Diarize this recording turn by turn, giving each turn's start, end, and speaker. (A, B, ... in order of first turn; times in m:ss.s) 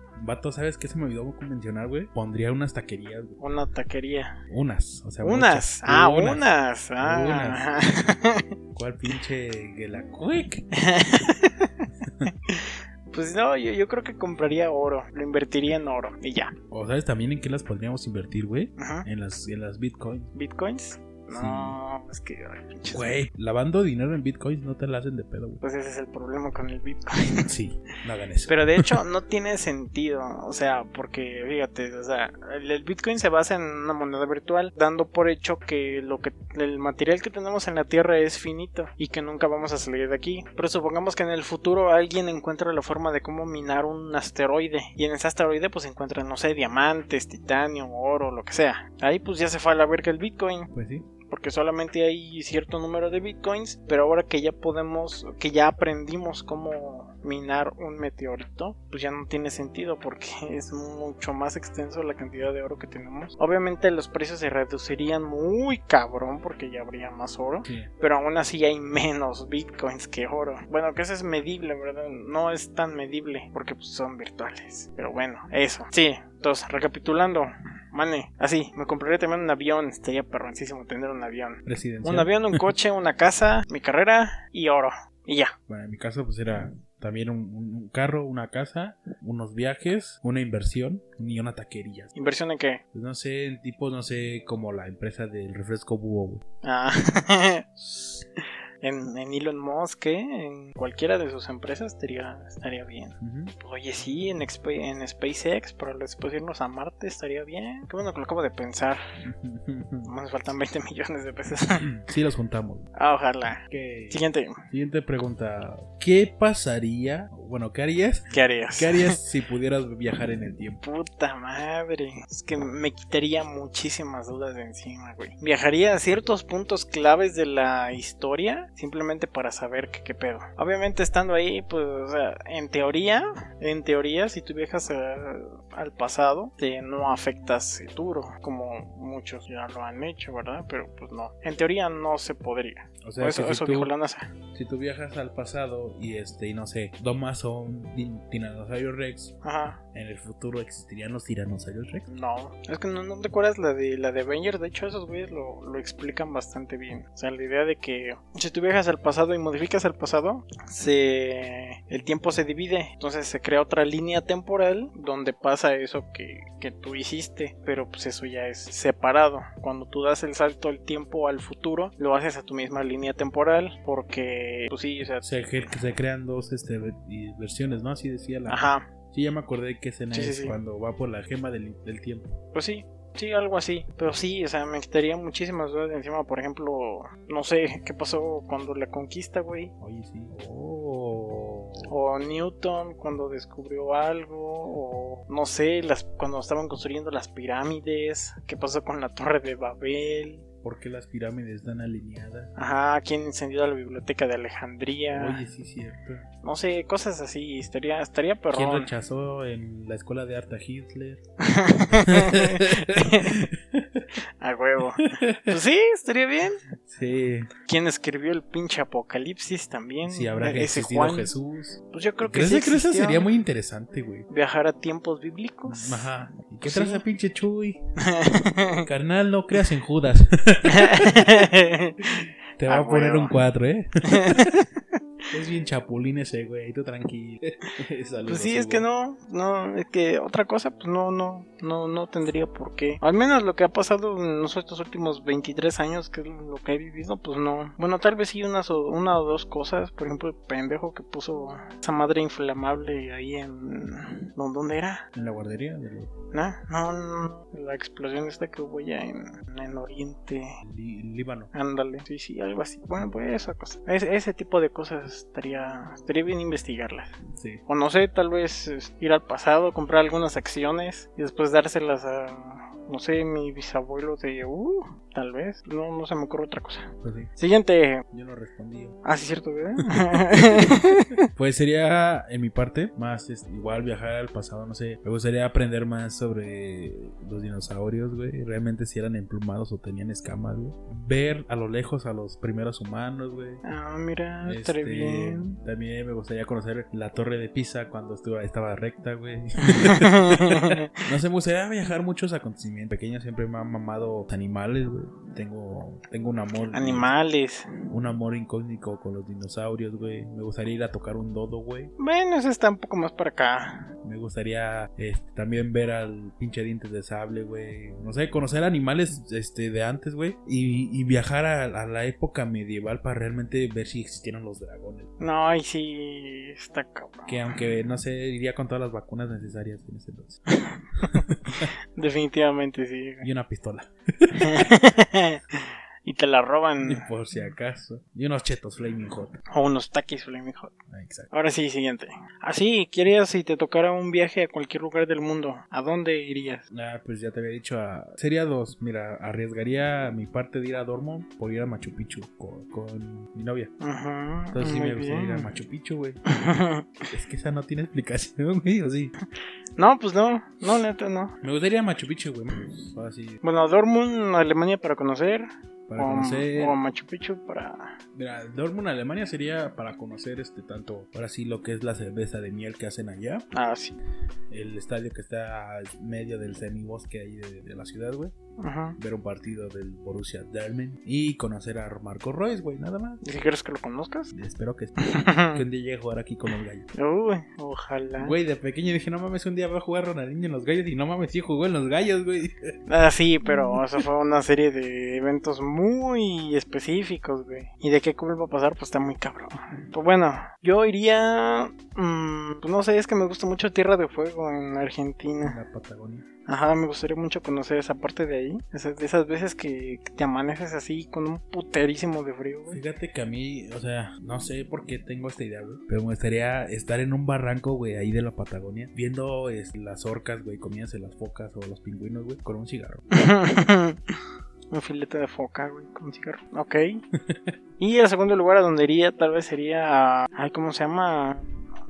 0:00.2-0:03.4 A
0:03.4-0:04.4 B
0:04.5-0:06.4 A
0:05.2-0:08.5 B
0:07.0-0:07.6 A
0:08.7-0:10.6 A
0:10.7-0:16.5 B
0:12.0-0:12.3 A
0:16.7-0:20.3 A
0:18.8-0:19.1 B
0:20.3-0:23.2 B
0:21.3-0:21.8 A
0:22.9-0:25.6 A
0:25.6-0:27.5 B
0:27.4-0:29.0 A
0:28.5-0:50.7 B
0:50.7-0:51.1 A
0:51.3-1:25.5 B
1:21.6-1:22.7 A
1:25.7-1:32.1 A
1:32.1-1:32.8 B
1:32.9-1:36.4 A
1:36.6-1:49.0 B
1:43.2-1:43.5 A
1:49.2-1:50.1 A
1:50.0-1:51.9 B
1:51.8-1:52.9 A
1:53.0-1:54.6 B
1:53.7-2:00.8 A
1:58.3-1:59.2 B
2:00.8-2:24.3 B
2:23.0-2:23.9 A
2:24.5-2:29.3 A
2:29.4-2:29.8 B
2:29.9-2:32.1 A
2:32.1-2:55.7 B
2:55.2-3:02.4 A
2:58.5-2:58.9 B
3:00.1-3:00.6 B
3:02.5-3:09.7 B
3:09.8-3:11.9 A
3:11.8-3:20.4 B
3:20.6-3:22.5 A
3:22.6-3:25.4 B
3:25.1-3:26.3 A
3:26.4-3:28.9 B
3:28.5-3:31.2 A
3:31.4-3:33.4 B
3:31.9-3:34.1 A
3:34.4-3:36.6 B
3:35.0-3:35.6 A
3:36.8-3:37.5 A
3:37.6-3:41.3 B
3:40.0-3:44.3 A
3:41.9-3:43.3 B
3:44.3-3:46.1 B
3:45.7-3:47.8 A
3:46.6-3:47.0 B
3:48.0-3:48.9 B
3:48.8-3:51.5 A
3:50.6-3:53.4 B
3:52.6-3:54.5 A
3:54.0-3:54.8 B
3:55.3-3:58.8 A
3:58.2-4:15.1 B
4:15.1-4:16.1 A
4:16.3-4:20.6 B
4:20.6-4:21.5 A
4:21.5-4:27.2 B
4:27.4-4:27.6 A
4:27.7-4:38.0 B
4:37.0-4:37.3 A
4:38.1-4:39.0 A
4:39.0-4:41.2 B
4:39.8-4:53.6 A
4:53.6-4:55.6 B
4:54.4-5:07.1 A
4:59.6-5:00.9 B
5:06.7-5:07.7 B
5:07.9-5:11.9 A
5:12.0-5:13.9 B
5:14.0-5:25.1 A
5:25.2-5:27.4 B
5:27.3-5:30.4 A
5:30.5-5:33.2 B
5:31.0-5:31.7 A
5:33.2-5:34.7 A
5:34.4-5:37.1 B
5:36.8-5:39.4 A
5:39.5-5:40.7 B
5:40.9-5:41.3 A
5:41.3-5:46.6 B
5:46.7-5:53.7 A
5:53.8-5:55.5 B
5:54.5-5:56.2 A
5:56.3-5:56.9 B
5:57.1-5:59.1 A
5:59.8-6:01.4 B
6:01.4-6:03.4 A
6:03.4-6:08.0 B
6:05.9-6:06.8 A
6:08.1-6:13.5 A
6:13.5-6:14.0 B
6:14.5-6:18.3 A
6:18.6-6:19.0 B
6:19.0-6:23.2 A
6:23.2-6:24.3 B
6:24.3-6:26.9 A
6:25.0-6:25.6 B
6:26.9-6:28.3 B
6:28.2-6:32.7 A
6:32.9-6:45.6 B
6:33.4-6:34.0 A
6:45.4-6:46.2 A
6:46.5-6:52.8 B
6:52.7-7:03.0 A
7:03.1-7:04.2 B
7:04.7-7:07.0 B
7:07.1-7:07.5 A
7:07.8-7:11.6 B